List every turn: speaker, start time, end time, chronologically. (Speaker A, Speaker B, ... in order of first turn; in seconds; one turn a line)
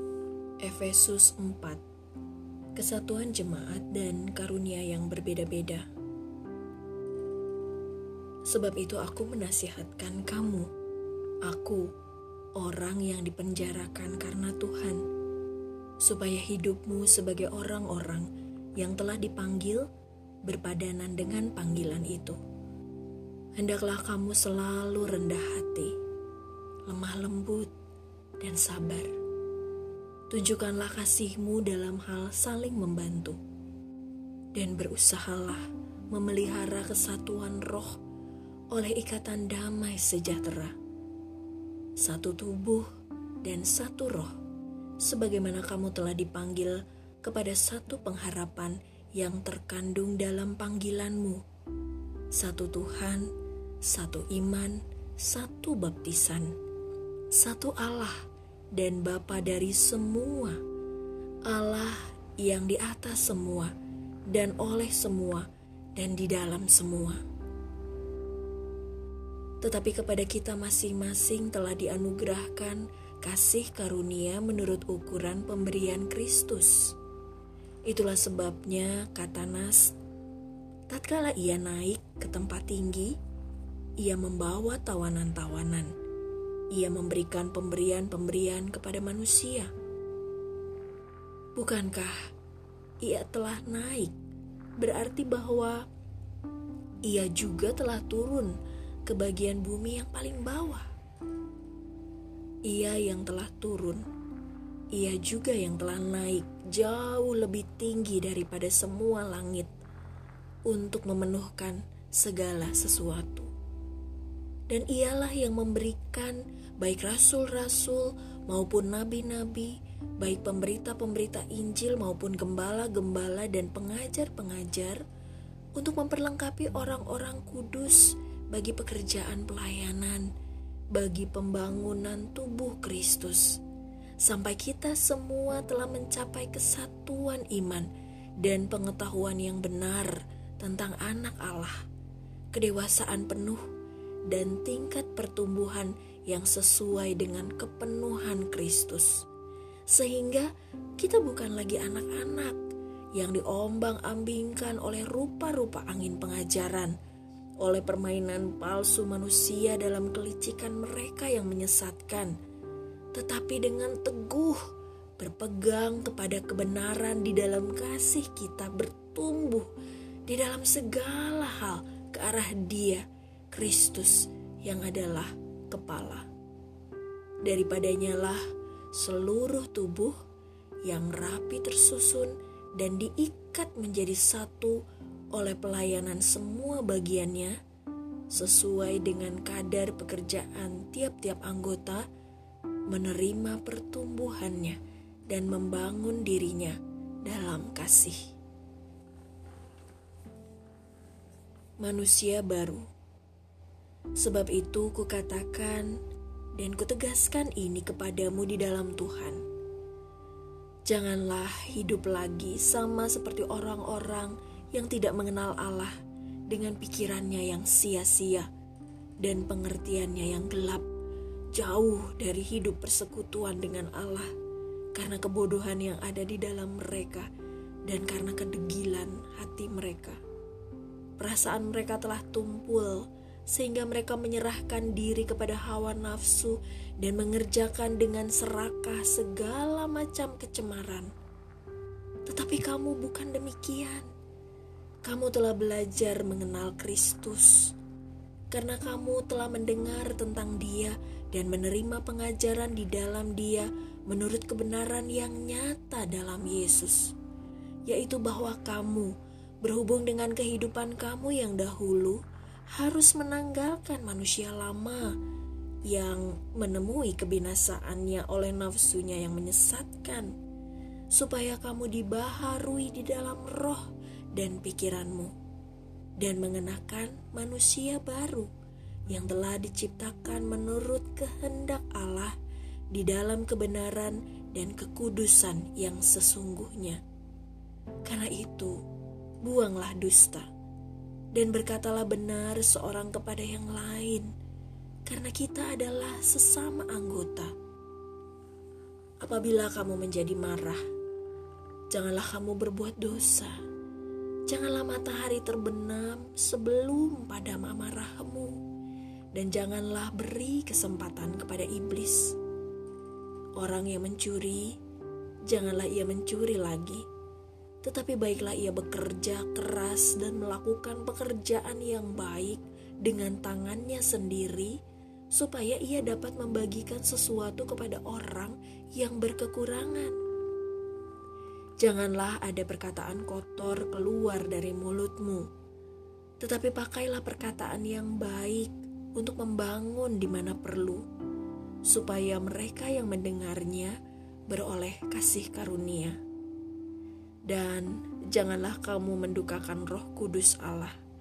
Speaker A: 0.6-1.8
Speaker A: 2.8-5.9
Speaker A: 8.5-10.7
Speaker A: 11.4-11.9
Speaker A: 12.6-15.1
Speaker A: 16.0-19.9
Speaker A: 20.4-22.4
Speaker A: 23.6-25.9
Speaker A: 26.9-27.7
Speaker A: 28.4-29.1
Speaker A: 30.3-33.4
Speaker A: 34.5-38.0
Speaker A: 38.7-40.8
Speaker A: 42.0-42.9
Speaker A: 43.4-44.3
Speaker A: 45.0-51.4
Speaker A: 52.3-53.3
Speaker A: 53.8-56.5
Speaker A: 57.3-60.6
Speaker A: 61.5-63.7
Speaker A: 64.3-67.2
Speaker A: 69.6-77.0
Speaker A: 77.9-79.9
Speaker A: 80.9-83.2
Speaker A: 84.0-85.9
Speaker A: 86.7-89.7
Speaker A: 91.5-92.2
Speaker A: 93.0-94.2
Speaker A: 94.8-95.8
Speaker A: 97.0-98.5
Speaker A: 99.1-100.9
Speaker A: 102.7-104.0
Speaker A: 104.9-109.7
Speaker A: 110.7-113.5
Speaker A: 114.7-125.0
Speaker A: 125.8-130.3
Speaker A: 130.9-133.6
Speaker A: 134.2-141.8
Speaker A: 142.5-143.6
Speaker A: 144.3-149.2
Speaker A: 149.9-152.6
Speaker A: 153.2-157.0
Speaker A: 157.6-162.3
Speaker A: 163.1-164.6
Speaker A: 165.2-169.7
Speaker A: 170.3-176.3
Speaker A: 177.4-178.4
Speaker A: 178.9-180.2
Speaker A: 180.8-184.8
Speaker A: 185.3-187.6
Speaker A: 188.3-192.0
Speaker A: 192.9-198.3
Speaker A: 201.8-202.8
Speaker A: 204.2-205.9
Speaker A: 206.6-209.4
Speaker A: 210.9-215.9
Speaker A: 216.5-218.5
Speaker A: 219.2-220.9
Speaker A: 221.5-224.3
Speaker A: 224.9-227.3
Speaker A: 227.9-230.2
Speaker A: 231.2-241.1
Speaker A: 242.3-244.1
Speaker A: 245.0-247.7
Speaker A: 248.5-257.1
Speaker A: 257.9-262.2
Speaker A: 262.7-265.2
Speaker A: 265.9-270.3
Speaker A: 271.1-275.3
Speaker A: 276.2-278.5
Speaker A: 279.1-282.4
Speaker A: 282.9-287.0
Speaker A: 288.1-288.8
Speaker A: 289.4-290.5
Speaker A: 291.3-294.3
Speaker A: 295.1-297.5
Speaker A: 299.2-300.8
Speaker A: 301.9-303.6
Speaker A: 304.5-308.6
Speaker A: 309.3-312.4
Speaker A: 313.6-314.8
Speaker A: 315.5-317.1
Speaker A: 317.8-324.8
Speaker A: 325.3-330.2
Speaker A: 331.8-335.5
Speaker A: 336.4-341.0
Speaker A: 341.9-343.9
Speaker A: 344.5-346.2
Speaker A: 347.5-351.0